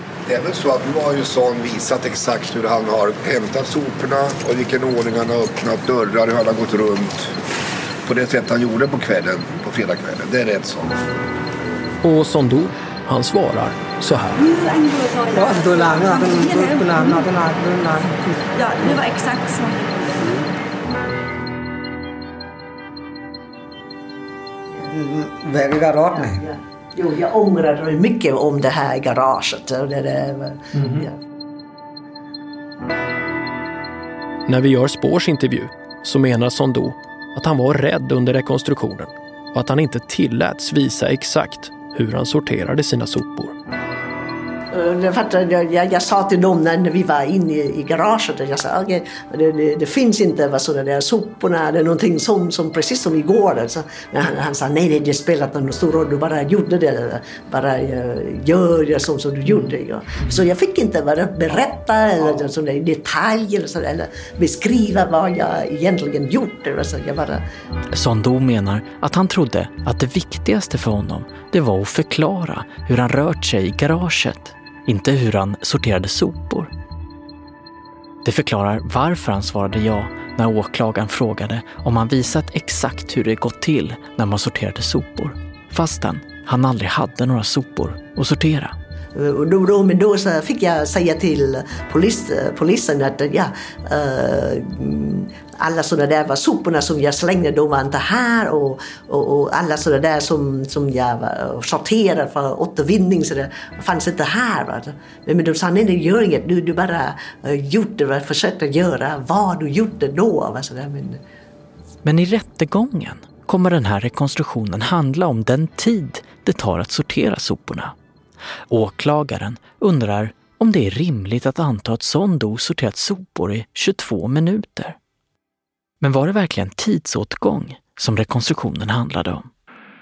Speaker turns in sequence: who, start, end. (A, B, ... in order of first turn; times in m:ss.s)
0:00.3-0:07.3 A
0:08.0-0:11.0 A
0:12.0-0:14.4 B
0:14.4-0:17.3 C
0:15.3-0:19.0 D
0:18.5-0:20.4 C
0:24.9-0:26.4 D
0:26.1-0:31.1 E
0:34.5-0:43.5 B
0:44.7-1:07.4 E
1:07.9-1:16.7 F
1:18.2-1:28.8 F
1:29.1-1:51.2 E
1:52.0-1:57.9 F
1:58.7-2:05.0 F
2:06.0-2:09.5 F